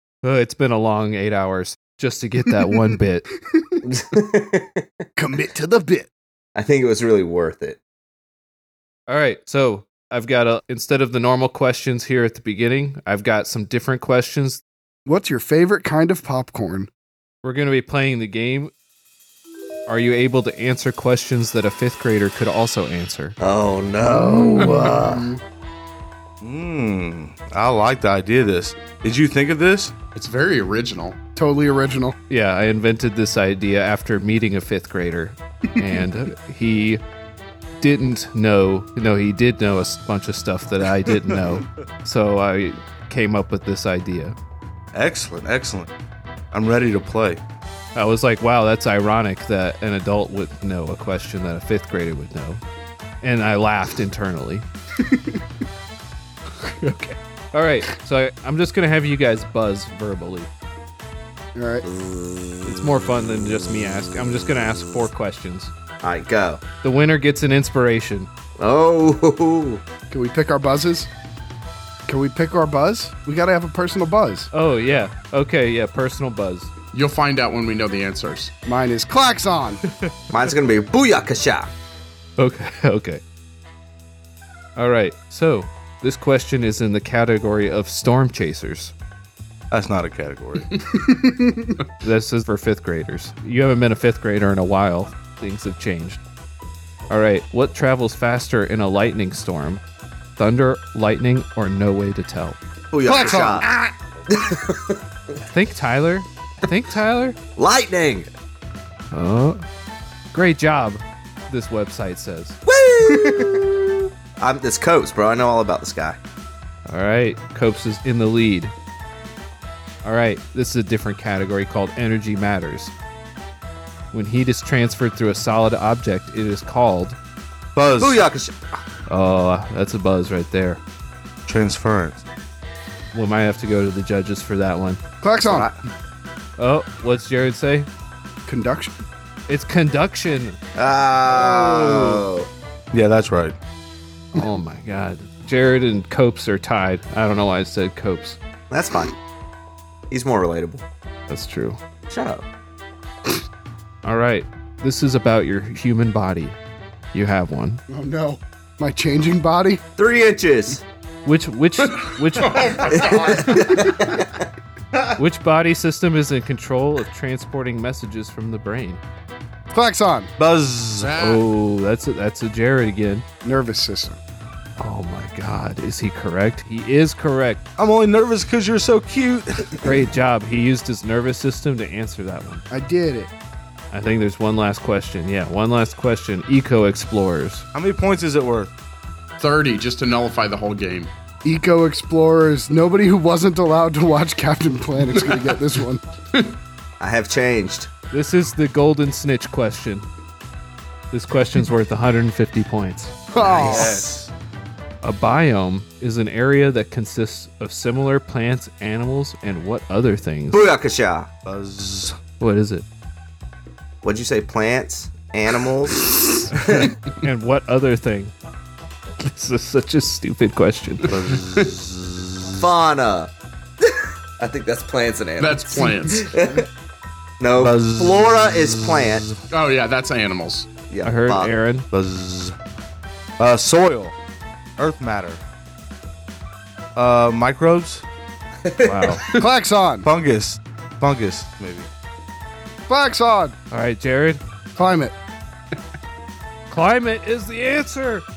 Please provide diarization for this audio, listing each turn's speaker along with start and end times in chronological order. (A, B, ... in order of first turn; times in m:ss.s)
0:00.2-0:03.3 A
0:03.8-0:04.9 B
0:05.2-0:06.1 C
0:06.6-0:07.8 B
0:09.1-0:14.6 A
0:15.1-0:16.9 C
0:17.4-0:18.7 A
0:19.9-0:23.4 A
0:23.4-0:25.3 B
0:24.0-0:25.4 C
0:26.4-0:29.9 D
0:30.2-0:31.2 E
0:31.4-0:32.2 C
0:32.3-0:37.0 A
0:37.8-0:44.4 A
0:44.9-0:45.9 D
0:46.5-0:47.4 D
0:48.0-0:52.6 A
0:53.2-0:54.7 A
0:55.0-0:55.4 C
0:56.6-1:00.5 A
1:01.6-1:01.8 C
1:01.9-1:02.6 B
1:02.6-1:05.7 A
1:06.0-1:06.6 B
1:06.8-1:08.3 A
1:08.6-1:09.8 B
1:10.1-1:11.1 C
1:12.1-1:14.5 C
1:14.5-1:16.7 A
1:16.9-1:18.5 E
1:18.7-1:19.8 C
1:20.3-1:21.7 B
1:22.4-1:23.2 A
1:24.8-1:28.9 A
1:29.7-1:30.7 D
1:31.0-1:31.7 C
1:32.0-1:36.2 A
1:37.1-1:39.8 A
1:40.4-1:42.6 A
1:42.9-1:43.7 B
1:43.0-1:43.9 C
1:44.3-1:45.0 B
1:45.5-1:47.4 A
1:47.6-1:48.3 B
1:49.1-1:49.7 A
1:50.3-1:52.6 A
1:52.7-1:53.7 B
1:53.1-1:53.6 C
1:54.4-1:56.2 B
1:56.9-1:58.7 A
2:00.0-2:02.9 A
2:04.1-2:07.2 A
2:07.8-2:08.2 D
2:08.0-2:08.6 B
2:09.1-2:10.8 A
2:11.5-2:12.2 D
2:13.1-2:15.0 A
2:15.2-2:15.7 C
2:15.5-2:15.8 B
2:16.6-2:17.9 A
2:18.5-2:18.9 C
2:19.5-2:20.6 A
2:20.8-2:22.5 B
2:21.6-2:22.1 A
2:22.9-2:23.6 D
2:24.3-2:28.4 A
2:28.7-2:29.2 B
2:30.1-2:30.8 B
2:31.3-2:31.8 A
2:32.1-2:32.4 B
2:34.0-2:36.6 A
2:37.1-2:37.8 A
2:37.9-2:39.8 C
2:40.0-2:40.8 B
2:41.3-2:42.9 A
2:41.9-2:44.0 E
2:42.9-2:44.4 B
2:45.2-2:49.0 A
2:49.7-2:50.3 C
2:50.4-2:51.2 D
2:51.0-2:51.4 E
2:51.2-2:53.3 A
2:53.4-2:54.2 C
2:54.8-2:57.6 A
2:57.8-2:59.9 D
2:59.8-3:02.6 A
3:02.7-3:03.3 C
3:03.9-3:07.7 A
3:07.8-3:08.7 D
3:09.4-3:11.1 E
3:11.4-3:16.0 C
3:17.0-3:17.9 B
3:18.1-3:20.1 A
3:21.1-3:23.2 A
3:23.3-3:24.0 C
3:23.4-3:24.2 B
3:23.4-3:24.3 D
3:25.0-3:30.6 A
3:30.5-3:31.3 B
3:31.4-3:32.2 D
3:32.4-3:32.8 A
3:34.0-3:36.9 B
3:36.6-3:38.3 A
3:39.2-3:41.1 A
3:41.0-3:42.6 D
3:42.6-3:43.3 B
3:43.8-3:46.7 B
3:45.4-3:46.3 E
3:47.4-3:49.2 B
3:47.6-3:49.4 D
3:49.5-3:50.7 E
3:50.9-3:51.6 B
3:51.0-3:51.9 A
3:51.9-3:52.6 D
3:53.4-3:54.2 D
3:54.8-3:55.4 D
3:57.0-3:58.0 D
3:58.6-3:59.2 B
3:58.8-3:59.2 A
3:59.4-4:00.1 C
4:00.0-4:01.9 D
4:02.9-4:03.6 C
4:03.7-4:04.4 A
4:04.8-4:05.2 C
4:06.7-4:08.2 A